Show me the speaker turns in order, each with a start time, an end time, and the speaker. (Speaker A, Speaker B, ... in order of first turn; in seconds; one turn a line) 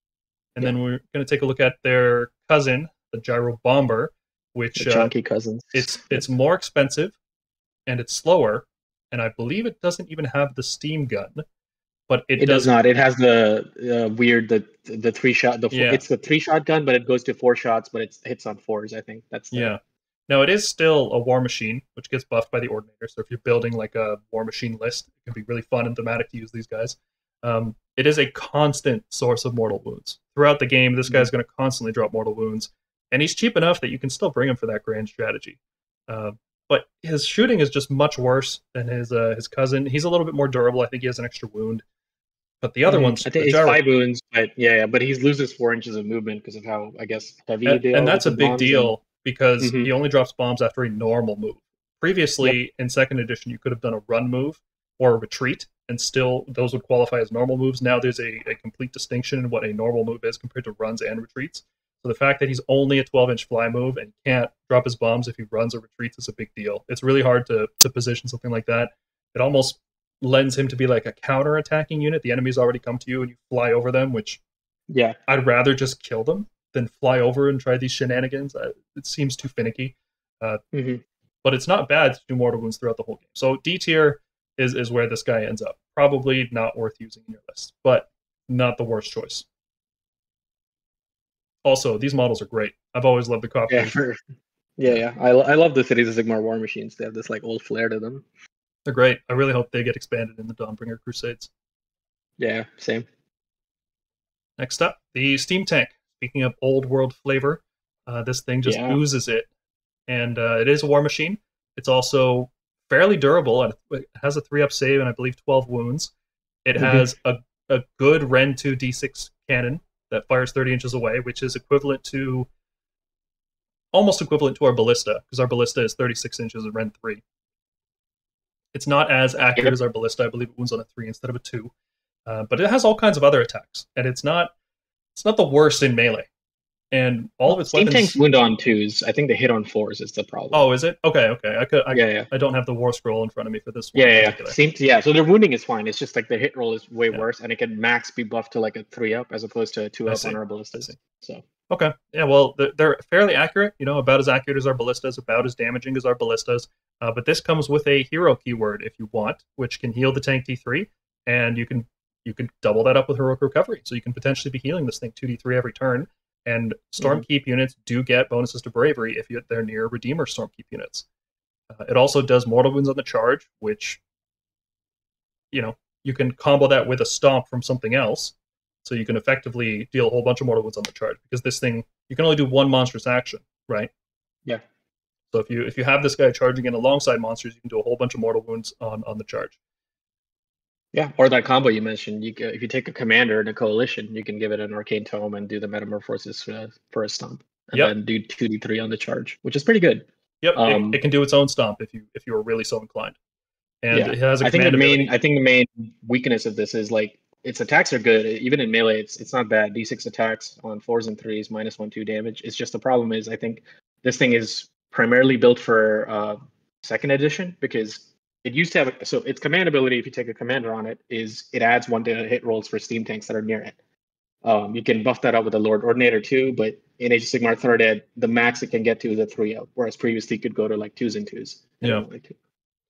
Speaker A: 0.5-5.1
Speaker B: 4.8-6.2
Speaker A: 5.7-7.1
Speaker A: 7.9-11.4
Speaker A: 12.1-12.7
Speaker B: 12.4-19.7
Speaker A: 15.7-16.0
Speaker A: 19.5-35.6
Speaker A: 36.1-41.8
Speaker A: 42.6-43.8
Speaker B: 42.9-48.9
Speaker A: 47.6-74.4
Speaker B: 49.6-49.9
Speaker B: 74.9-75.2
Speaker A: 75.3-80.6
Speaker B: 80.7-81.0
Speaker A: 81.4-89.5
Speaker A: 91.6-94.0
Speaker B: 93.7-94.2
Speaker B: 94.8-98.2
Speaker A: 98.8-101.5
Speaker B: 102.4-103.1
Speaker A: 104.6-109.5
Speaker B: 108.6-109.0
Speaker A: 110.1-116.1
Speaker A: 116.6-122.5
Speaker B: 116.8-117.1
Speaker A: 123.9-127.2
Speaker A: 128.7-131.7
Speaker A: 132.2-134.5
Speaker A: 135.1-136.3
Speaker A: 136.9-138.2
Speaker B: 137.5-140.6
Speaker A: 140.5-144.6
Speaker B: 141.9-142.3
Speaker B: 143.9-151.4
Speaker A: 150.1-151.0
Speaker A: 151.7-171.1
Speaker A: 171.7-174.0
Speaker A: 175.5-183.9
Speaker A: 185.3-189.6
Speaker B: 190.9-201.0
Speaker A: 200.4-203.2
Speaker A: 203.8-205.1
Speaker B: 203.9-223.8
Speaker B: 224.4-232.4